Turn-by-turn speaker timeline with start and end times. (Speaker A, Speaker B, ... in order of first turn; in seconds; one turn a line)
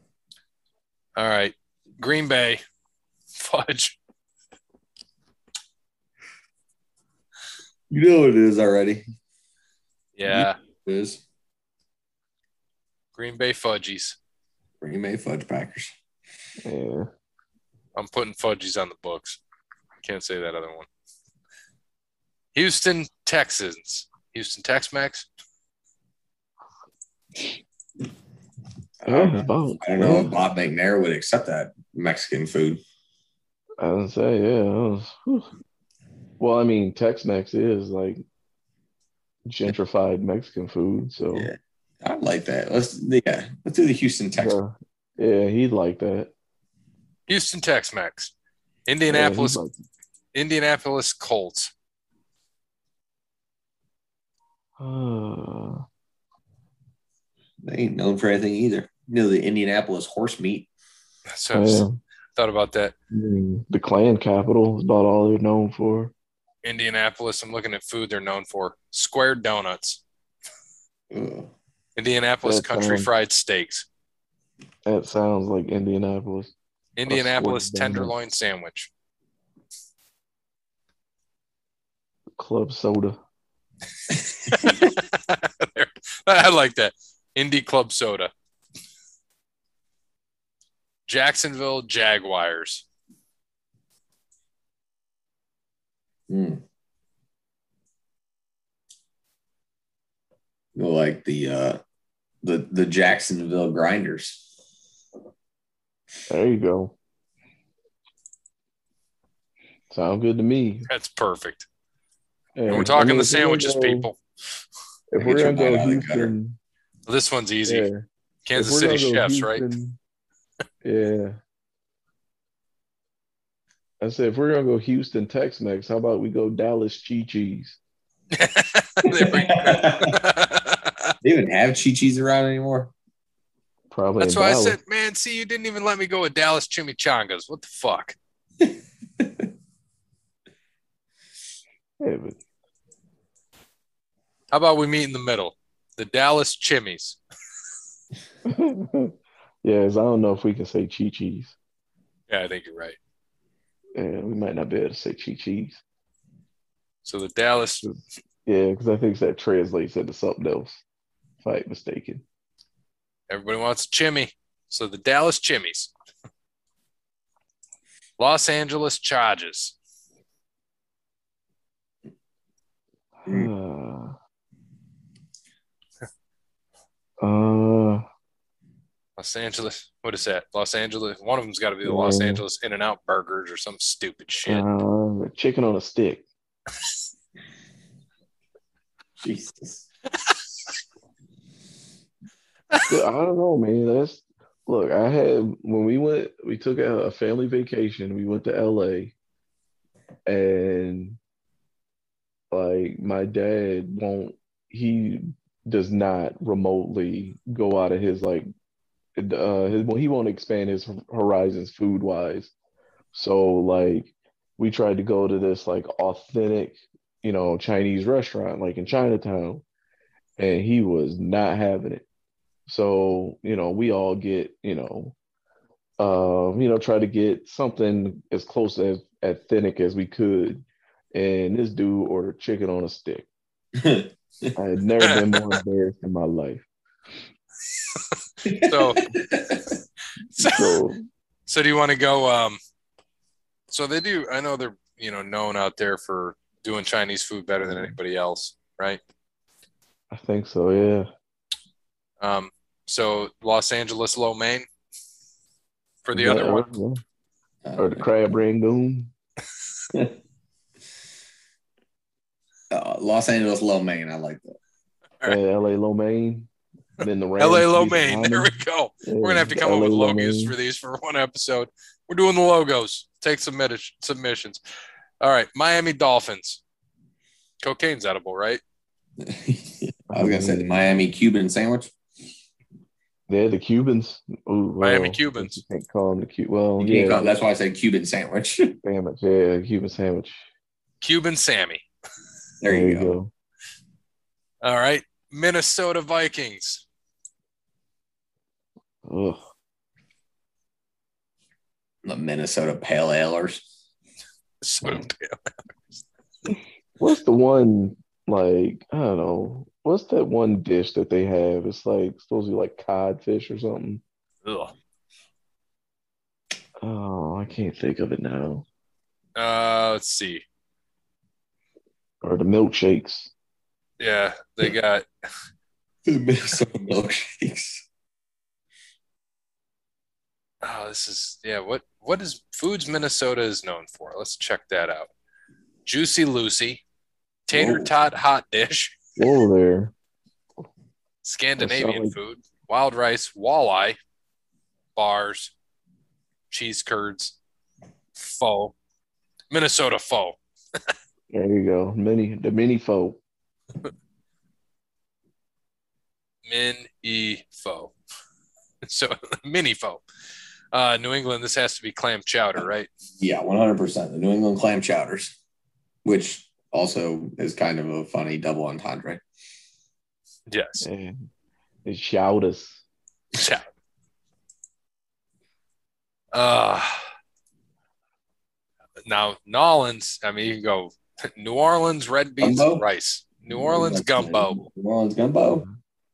Speaker A: 1.2-2.6
Speaker A: 3.4-4.0
Speaker B: 7.9-9.0
Speaker A: 10.2-10.6
Speaker B: 10.3-11.2
Speaker A: 13.2-14.2
Speaker B: 14.8-15.9
Speaker C: 16.6-17.1
Speaker A: 18.0-19.4
Speaker A: 20.0-20.9
Speaker A: 22.5-25.3
Speaker B: 29.0-32.8
Speaker C: 29.1-30.4
Speaker C: 33.8-35.5
Speaker C: 36.4-38.2
Speaker C: 39.5-41.5
Speaker B: 41.3-44.5
Speaker C: 44.4-46.3
Speaker A: 47.3-48.3
Speaker A: 48.9-49.6
Speaker C: 49.1-49.8
Speaker A: 50.3-51.7
Speaker C: 54.8-55.8
Speaker B: 57.6-60.7
Speaker A: 61.3-63.0
Speaker C: 61.5-62.0
Speaker C: 63.1-66.1
Speaker A: 66.6-70.0
Speaker B: 71.1-71.5
Speaker A: 72.0-73.9
Speaker C: 72.4-73.1
Speaker C: 74.8-76.5
Speaker A: 77.0-78.9
Speaker C: 77.1-78.1
Speaker C: 82.4-83.2
Speaker A: 84.5-88.3
Speaker A: 91.1-92.9
Speaker B: 96.3-96.6
Speaker B: 100.8-101.8
Speaker B: 102.4-104.4
Speaker C: 106.3-107.0
Speaker C: 109.9-110.9
Speaker A: 110.9-111.7
Speaker C: 112.6-114.1
Speaker A: 112.7-114.2
Speaker C: 115.1-116.6
Speaker B: 115.2-116.3
Speaker A: 117.1-117.9
Speaker C: 117.7-120.0
Speaker A: 118.5-119.7
Speaker C: 120.8-121.4
Speaker C: 124.0-127.8
Speaker A: 128.3-131.1
Speaker B: 129.1-130.2
Speaker B: 131.2-132.9
Speaker C: 133.9-134.8
Speaker A: 134.2-138.2
Speaker B: 138.6-139.5
Speaker C: 142.0-142.4
Speaker A: 144.5-147.2
Speaker C: 148.4-151.6
Speaker A: 152.3-153.0
Speaker C: 153.9-155.8
Speaker A: 157.1-157.9
Speaker C: 157.8-160.8
Speaker C: 161.4-162.2
Speaker A: 163.3-165.9
Speaker A: 168.2-169.8
Speaker C: 173.2-174.2
Speaker C: 177.2-178.0
Speaker A: 179.2-184.7
Speaker C: 181.8-182.4
Speaker C: 184.4-186.3
Speaker B: 189.2-189.9
Speaker C: 192.9-199.1
Speaker C: 200.3-201.2
Speaker C: 202.5-208.5
Speaker C: 209.2-212.5
Speaker C: 213.1-219.6
Speaker C: 220.4-222.1
Speaker C: 222.7-225.2
Speaker C: 226.0-233.3
Speaker B: 233.8-234.5
Speaker C: 234.6-236.7
Speaker A: 235.0-235.6
Speaker A: 238.1-239.1
Speaker B: 238.4-239.6
Speaker A: 240.3-240.8
Speaker C: 240.4-241.0
Speaker A: 241.5-242.6
Speaker A: 243.7-249.0
Speaker C: 247.6-247.9
Speaker C: 250.1-251.1
Speaker A: 252.2-254.7
Speaker A: 256.0-256.7
Speaker C: 256.1-257.0
Speaker B: 257.6-258.1
Speaker C: 257.8-259.1
Speaker B: 262.7-264.6
Speaker C: 265.2-270.6
Speaker A: 267.4-274.6
Speaker A: 275.2-276.6
Speaker A: 277.6-278.6
Speaker B: 279.2-281.9
Speaker C: 280.1-280.8
Speaker C: 283.3-287.4
Speaker A: 284.8-285.6
Speaker B: 286.8-288.8
Speaker C: 288.8-290.4
Speaker A: 291.0-291.9
Speaker B: 292.6-293.2
Speaker C: 292.7-293.3
Speaker A: 294.6-296.9
Speaker C: 299.1-299.4
Speaker B: 302.0-303.6
Speaker A: 304.6-305.4
Speaker C: 306.5-314.0
Speaker A: 314.4-314.7
Speaker C: 316.8-318.7
Speaker A: 319.4-320.4
Speaker C: 322.2-323.3
Speaker A: 324.0-325.1
Speaker B: 326.1-327.9
Speaker A: 330.6-335.1
Speaker A: 335.9-336.8
Speaker A: 337.5-339.0
Speaker B: 337.5-337.9
Speaker C: 339.2-339.9
Speaker A: 341.2-344.0
Speaker C: 341.6-342.2
Speaker A: 344.9-345.5
Speaker A: 346.5-347.4
Speaker A: 348.2-348.8
Speaker A: 349.5-350.4
Speaker C: 351.3-353.2
Speaker A: 356.5-357.9
Speaker A: 358.8-360.0
Speaker A: 360.7-362.9
Speaker B: 363.2-365.4
Speaker B: 366.1-369.2
Speaker A: 370.5-370.9
Speaker C: 370.8-371.3
Speaker C: 371.9-372.8
Speaker A: 373.4-373.7
Speaker A: 376.3-377.0
Speaker A: 379.1-384.6
Speaker B: 382.4-382.9
Speaker B: 383.5-385.7